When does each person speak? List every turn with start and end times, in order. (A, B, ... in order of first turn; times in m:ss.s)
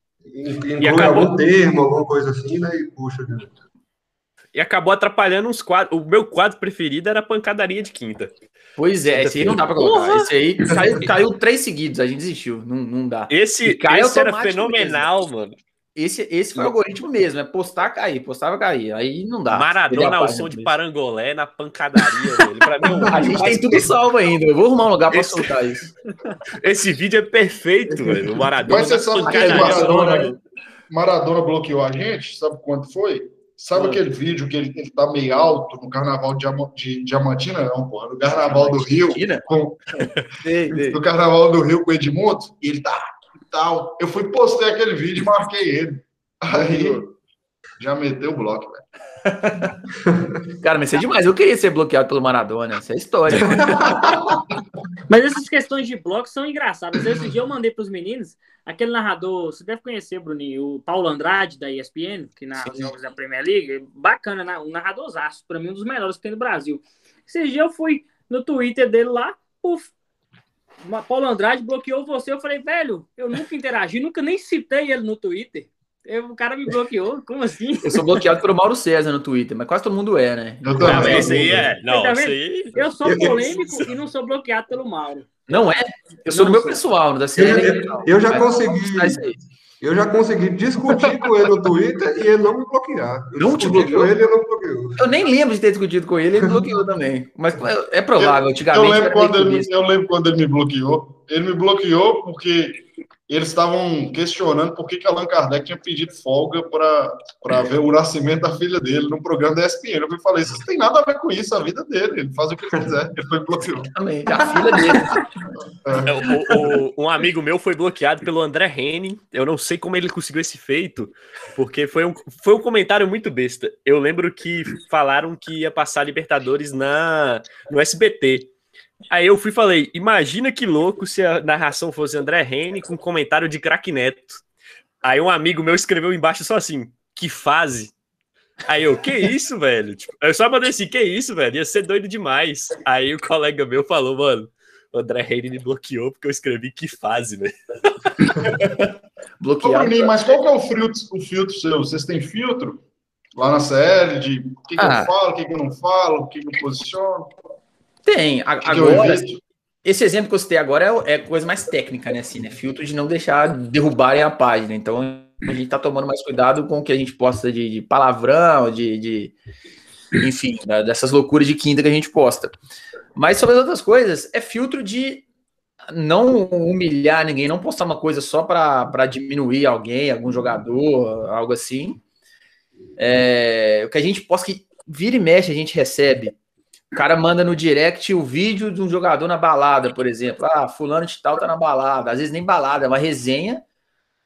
0:00.3-0:03.5 A
0:00.8-0:01.3 B
0:04.6-0:08.3 B
0:08.8-0:15.1 C
0:09.1-0:10.3 B
0:13.3-0:15.6 B
0:16.0-0:20.7 C
0:19.5-0:23.9 B
0:22.0-0:22.4 C
0:23.0-0:23.5 A
0:23.0-0:25.9 C
0:25.1-0:25.6 B
0:26.6-0:30.3 B
0:28.6-0:30.4 D
0:29.3-0:30.4 C
0:30.9-0:39.8 D
0:33.7-0:34.0 C
0:38.4-0:39.5 C
0:40.4-0:41.0 C
0:40.7-0:47.1 D
0:46.5-0:47.0 A
0:47.8-0:48.8 D
0:49.2-0:49.8 C
0:50.6-0:54.2 C
0:53.5-0:54.4 A
0:55.1-1:09.9 E
1:10.8-1:18.2 E
1:17.8-1:21.6 C
1:20.6-1:21.7 D
1:20.8-1:23.8 B
1:21.8-1:25.3 E
1:23.0-1:23.5 A
1:25.5-1:29.4 C
1:26.3-1:26.8 E
1:27.4-1:29.2 A
1:27.5-1:27.8 E
1:29.8-1:35.0 A
1:33.4-1:34.2 C
1:35.0-1:39.7 C
1:36.4-1:36.6 A
1:38.2-1:53.9 D
1:53.9-1:55.2 C
1:54.8-1:55.1 E
1:55.8-1:56.3 D
1:56.0-2:08.5 B
2:09.1-2:14.4 B
2:15.0-2:17.9 B
2:18.7-2:28.5 B
2:29.4-2:30.4 C
2:29.6-2:32.8 D
2:33.4-2:37.3 D
2:34.8-2:35.1 C
2:38.0-2:39.2 C
2:38.6-2:39.4 D
2:39.8-2:49.4 C
2:50.2-2:52.6 C
2:53.2-2:55.2 C
2:55.9-3:02.0 C
3:03.0-3:06.4 C
3:06.9-3:13.6 C